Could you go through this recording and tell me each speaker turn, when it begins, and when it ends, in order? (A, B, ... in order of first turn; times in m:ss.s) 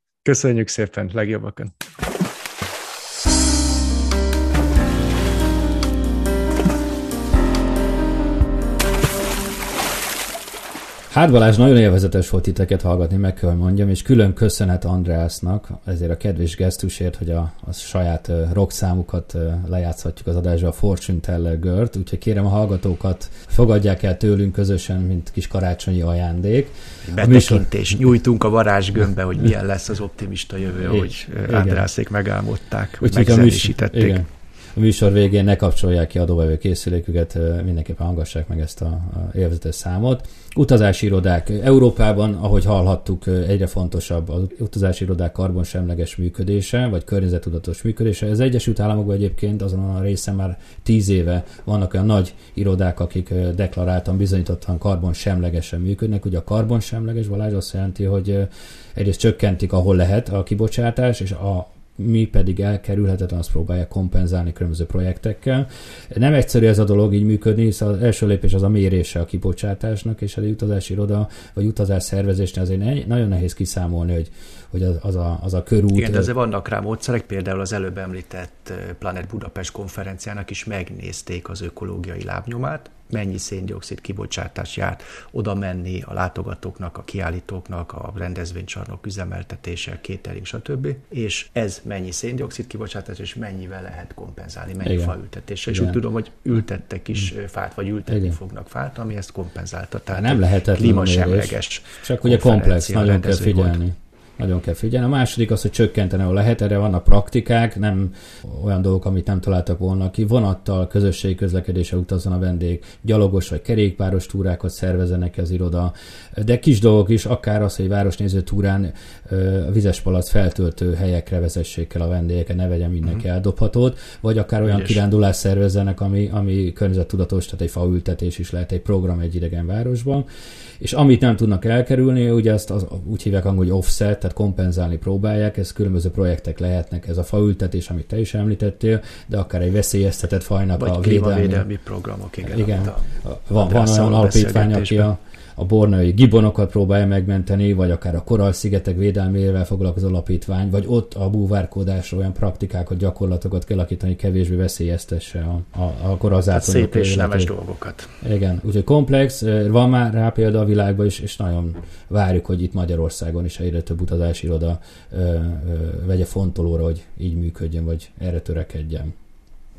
0:00.2-0:01.7 A
0:11.1-0:27.7 B
0:27.1-0:34.2 A
0:30.8-0:31.9 B
0:33.0-1:16.3 B
1:15.9-1:43.8 A
1:34.8-1:35.1 B
1:35.7-1:36.0 B
1:38.1-1:38.4 B
1:40.1-2:10.3 B
2:04.7-2:05.0 A
2:10.8-2:21.7 B
2:20.8-2:25.1 A
2:22.5-2:37.5 B
2:36.5-2:38.1 A
2:38.2-2:49.1 B